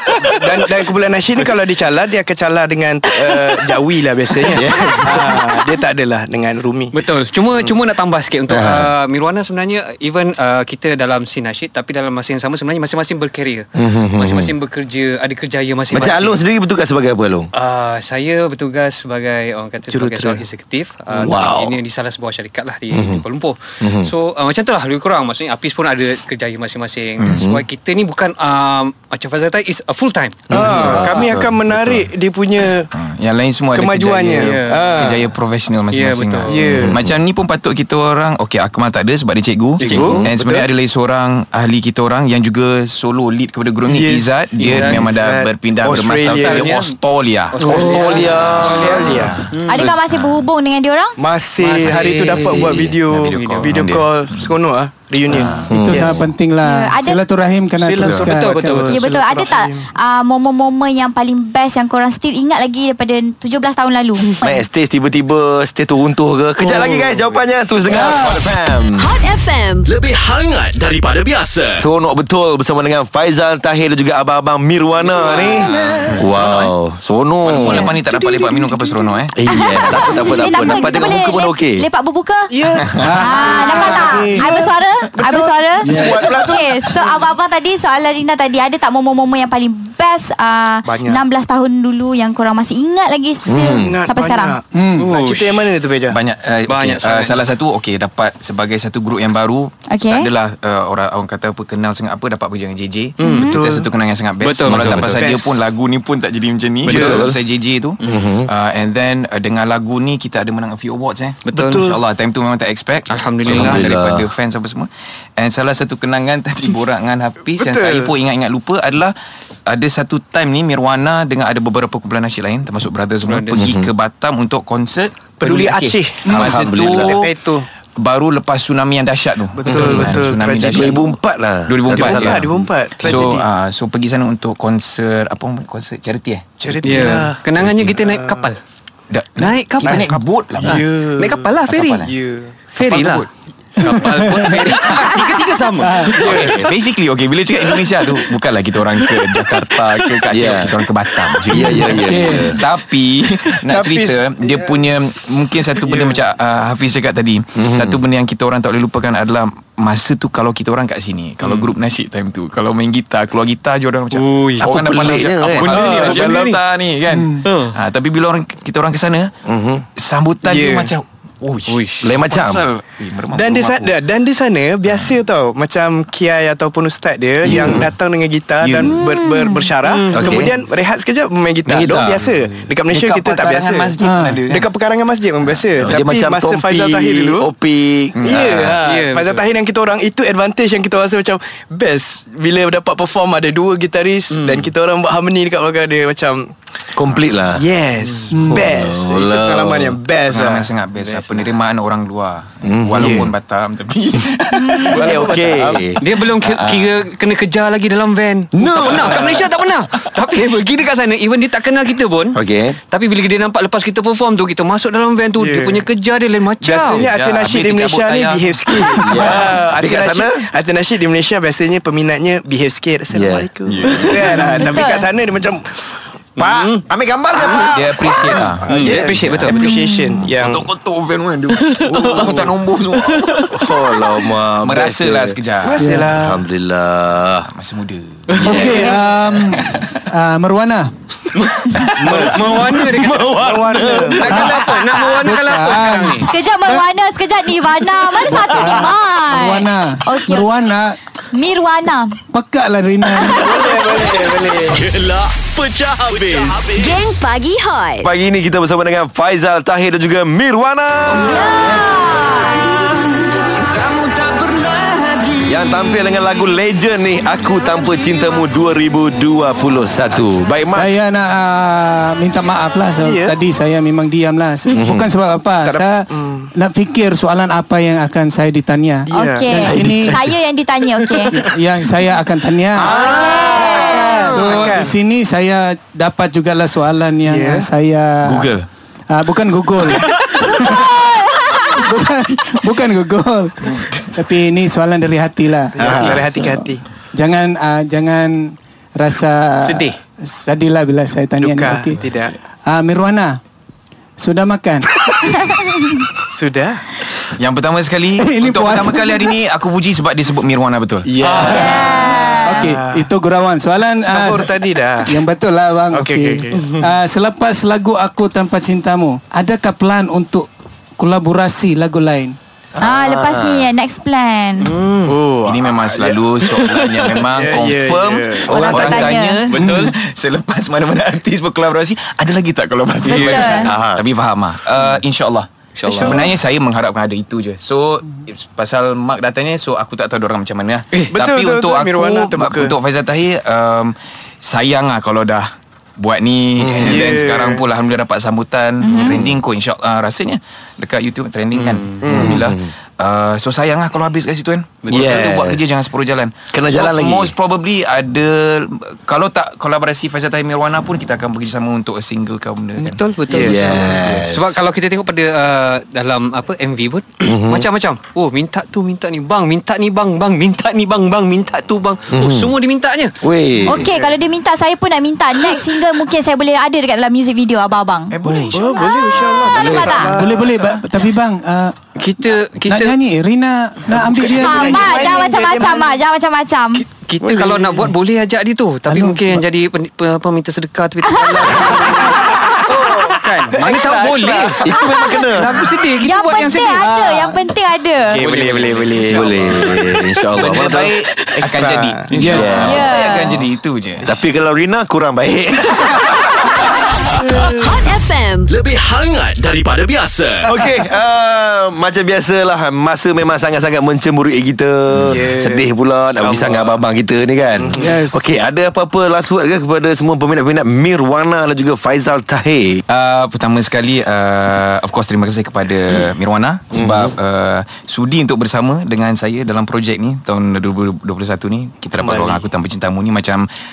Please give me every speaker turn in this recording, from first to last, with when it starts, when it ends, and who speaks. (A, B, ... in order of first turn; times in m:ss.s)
0:00.2-0:07.0 A
0:04.5-0:05.4 B
0:06.9-0:16.4 C
0:08.5-0:08.9 B
0:13.8-0:14.5 B
0:15.9-0:17.5 B
0:17.5-0:31.4 C
0:19.9-0:20.4 A
0:21.2-0:21.8 B
0:22.9-0:23.2 B
0:23.8-0:24.1 B
0:27.2-0:27.5 D
0:27.3-0:27.6 B
0:30.5-0:31.0 B
0:30.5-0:32.9 A
0:30.5-0:32.1 D
0:32.9-0:47.7 D
0:33.8-0:35.2 A
0:34.3-0:35.2 C
0:35.9-0:36.8 C
0:36.5-0:37.0 A
0:39.8-0:40.2 C
0:39.8-0:40.3 A
0:39.8-0:40.6 B
0:43.9-0:46.7 A
0:44.6-0:45.1 C
0:46.3-0:47.0 C
0:47.5-0:50.0 C
0:47.6-0:49.4 A
0:47.6-0:49.2 B
0:48.5-0:50.5 D
0:49.7-0:51.2 E
0:51.2-0:56.2 A
0:51.6-0:52.8 C
0:52.3-0:53.0 B
0:53.1-0:54.6 D
0:53.3-0:53.8 C
0:55.3-0:55.7 D
0:55.7-0:56.3 B
0:55.7-0:58.8 F
0:56.6-0:57.2 E
0:57.8-0:59.9 A
0:58.0-0:58.3 D
0:58.3-0:59.0 C
0:58.9-1:04.6 E
1:04.4-1:09.1 B
1:07.9-1:08.4 F
1:09.0-1:09.9 G
1:09.9-1:11.9 H
1:11.8-1:17.9 B
1:15.0-1:16.1 A
1:15.2-1:16.0 C
1:15.7-1:16.7 D
1:17.4-1:19.3 D
1:18.1-1:18.5 A
1:19.3-1:21.9 B
1:19.5-1:22.5 E
1:22.5-1:27.3 A
1:23.0-1:24.6 F
1:23.1-1:34.6 E
1:25.8-1:26.2 F
1:30.9-1:31.2 A
1:33.4-1:34.0 B
1:33.5-1:36.2 A
1:34.7-1:35.1 F
1:35.0-1:35.7 C
1:36.1-1:59.2 D
1:36.7-1:37.4 C
1:39.9-1:40.3 E
1:43.2-1:43.5 C
1:43.2-1:43.6 E
1:43.2-1:43.9 A
1:44.4-1:45.4 C
1:44.7-1:45.0 B
1:45.0-1:45.5 A
1:46.9-1:47.2 C
1:46.9-1:47.3 A
1:46.9-1:47.3 B
1:48.0-1:48.5 B
1:51.5-1:52.0 C
1:51.6-1:52.0 A
1:53.1-1:53.9 C
1:53.5-1:54.3 B
1:57.6-1:58.1 A
1:59.7-2:07.3 D
2:03.2-2:03.6 C
2:03.6-2:03.9 B
2:05.4-2:07.7 A
2:06.3-2:07.2 B
2:08.0-2:11.1 D
2:09.6-2:11.1 A
2:09.7-2:13.2 B
2:11.7-2:12.5 D
2:11.9-2:13.5 A
2:13.0-2:18.0 D
2:16.6-2:17.4 A
2:16.8-2:18.6 C
2:18.0-2:18.5 A
2:19.1-2:20.9 D
2:19.4-2:22.1 C
2:20.6-2:21.5 A
2:21.7-2:22.1 D
2:22.0-2:22.6 A
2:22.8-2:26.6 C
2:22.8-2:23.3 D
2:23.8-2:24.6 F
2:25.8-2:26.1 F
2:26.2-2:49.3 D
2:26.2-2:26.6 A
2:30.3-2:30.8 B
2:31.5-2:32.6 B
2:33.6-2:35.1 A
2:35.8-2:36.2 A
2:37.6-2:38.0 B
2:41.4-2:41.7 C
2:44.1-2:44.7 C
2:44.6-2:46.1 B
2:45.6-2:46.4 C
2:45.6-2:46.6 A
2:47.4-2:47.8 C
2:49.5-2:49.8 B
2:50.0-2:54.0 D
2:50.4-2:50.9 A
2:51.7-2:52.0 C
2:52.0-2:52.6 B
2:53.3-3:03.9 A
2:54.9-2:55.2 D
2:57.4-2:57.9 B
2:57.6-2:57.8 D
2:58.6-2:59.0 D
2:58.8-2:59.7 E
2:59.8-3:00.5 C
3:00.1-3:00.5 B
3:01.7-3:02.3 B
3:02.9-3:04.7 D
3:04.0-3:04.4 F
3:04.5-3:07.5 A
3:05.8-3:08.8 B
3:08.2-3:08.7 D
3:08.2-3:16.6 A
3:08.8-3:09.5 C
3:14.3-3:14.7 C
3:17.0-3:17.6 B
3:17.6-3:20.7 A
3:18.0-3:18.3 C
3:18.3-3:18.6 F
3:18.5-3:20.0 B
3:20.3-3:25.4 D
3:21.0-3:21.5 C
3:22.6-3:23.3 B
3:23.0-3:23.3 A
3:24.6-3:25.0 E
3:24.9-3:25.8 A
3:25.0-3:26.0 B
3:26.0-3:32.4 C
3:26.2-3:26.9 D
3:28.5-3:29.5 B
3:32.4-3:32.8 B
3:32.9-3:37.1 C
3:35.4-3:35.9 A
3:36.6-3:46.0 A
3:36.8-3:38.7 D
3:39.0-3:40.5 B
3:43.1-3:43.5 B
3:43.7-3:44.4 D
3:44.2-3:44.5 C
3:44.6-3:45.1 E
3:46.4-3:46.8 C
3:46.4-3:49.2 B
3:47.7-3:49.7 D
3:48.3-3:50.7 A
3:48.7-3:49.6 C
3:49.5-3:50.3 E
3:50.3-3:53.5 D
3:51.5-3:52.4 C
3:51.9-3:52.5 A
3:53.0-3:53.7 C
3:53.5-3:55.4 B
3:54.6-3:55.9 D
3:55.6-3:56.4 A
3:55.8-3:56.1 F
3:56.1-3:57.5 B
3:57.4-3:58.4 D
3:58.4-3:59.0 B
3:58.4-4:00.9 F
3:58.6-3:59.0 E
3:59.5-4:00.0 D
4:01.3-4:03.3 C
4:02.0-4:02.4 A
4:02.0-4:04.9 B
4:03.4-4:04.4 A
4:03.9-4:06.3 C
4:04.3-4:04.6 F
4:05.1-4:06.8 F
4:06.3-4:10.5 E
4:08.3-4:11.0 F
4:11.3-4:12.2 E
4:12.3-4:13.6 F
4:13.1-4:13.5 E
4:13.3-4:14.8 A
4:13.7-4:17.0 H
4:16.7-4:18.1 G
4:18.0-4:21.9 B
4:21.1-4:22.8 E
4:25.4-4:30.9 B
4:30.7-4:36.0 F
4:33.0-4:33.4 A
4:34.7-4:35.1 B
4:35.6-4:36.5 A
4:36.6-4:40.2 F
4:39.1-4:39.9 A
4:39.1-4:41.4 E
4:39.8-4:40.3 B
4:41.0-4:41.4 A
4:41.4-4:43.0 F
4:42.8-4:44.5 E
4:42.8-4:45.0 A
4:42.9-4:43.7 B
4:44.2-4:48.5 F
4:47.3-4:47.7 A
4:48.2-4:48.7 B
4:49.1-4:56.6 F
4:50.4-4:51.9 E
4:55.8-4:56.8 A
4:55.8-4:56.3 B
4:57.1-5:02.0 F
4:59.6-5:00.0 C
5:01.4-5:02.4 A
5:02.7-5:03.4 F
5:04.2-5:05.4 F
5:05.5-5:05.8 E
5:06.3-5:06.8 A
5:07.4-5:11.1 D
5:08.2-5:09.3 F
5:11.1-5:11.8 B
5:11.3-5:13.1 A
5:11.4-5:11.7 F
5:11.4-5:12.7 E
5:11.5-5:11.9 C
5:12.4-5:20.5 F
5:14.0-5:15.2 A
5:15.9-5:16.8 A
5:16.5-5:16.8 C
5:21.0-5:22.4 F
5:22.8-5:23.7 B
5:22.8-5:24.8 E
5:24.6-5:25.2 C
5:25.0-5:26.2 A
5:25.4-6:03.0 D
5:26.6-5:26.9 C
5:27.2-5:29.1 A
5:28.5-5:29.2 B
5:28.5-5:29.4 E
5:29.5-5:29.9 C
5:33.0-5:33.7 E
5:33.1-5:33.6 C
5:33.6-5:34.0 B
5:35.8-5:36.3 C
5:36.0-5:36.3 A
5:41.1-5:42.7 A
5:46.6-5:47.0 B
5:46.8-5:47.6 A
5:48.8-5:49.2 E
5:49.0-5:49.3 B
5:51.5-5:52.0 C
5:52.0-5:52.4 A
5:52.1-5:52.7 B
5:54.9-5:55.6 B
5:56.5-5:57.3 B
6:02.8-6:13.2 C
6:03.3-6:04.0 A
6:03.4-6:04.6 B
6:07.2-6:07.6 B
6:12.1-6:12.5 B
6:13.2-6:13.9 B
6:13.6-6:20.1 E
6:13.7-6:14.2 A
6:18.1-6:18.9 D
6:18.2-6:20.6 A
6:20.0-6:21.8 F
6:22.0-6:23.0 C
6:22.6-6:25.1 F
6:24.0-6:26.0 A
6:24.3-6:26.8 E
6:26.9-6:37.0 C
6:27.2-6:27.8 A
6:28.9-6:29.4 F
6:31.1-6:31.4 E
6:31.3-6:34.8 A
6:32.3-6:32.6 E
6:34.6-6:35.7 B
6:34.8-6:35.2 E
6:36.0-6:38.2 E
6:37.0-6:37.3 F
6:38.1-6:39.7 A
6:38.1-6:40.0 C
6:39.1-6:40.9 B
6:39.2-6:39.6 D
6:40.4-6:44.1 D
6:41.4-6:42.6 A
6:42.2-6:42.9 B
6:42.6-6:43.4 E
6:44.0-6:46.6 B
6:47.5-6:48.5 G
6:48.5-6:50.6 H
6:50.4-7:02.8 B
6:54.9-6:55.2 D
6:55.0-6:55.7 A
6:56.2-6:56.7 A
6:57.6-6:57.9 A
6:57.8-6:58.3 F
7:02.9-7:13.5 D
7:06.7-7:07.1 B
7:12.1-7:12.4 C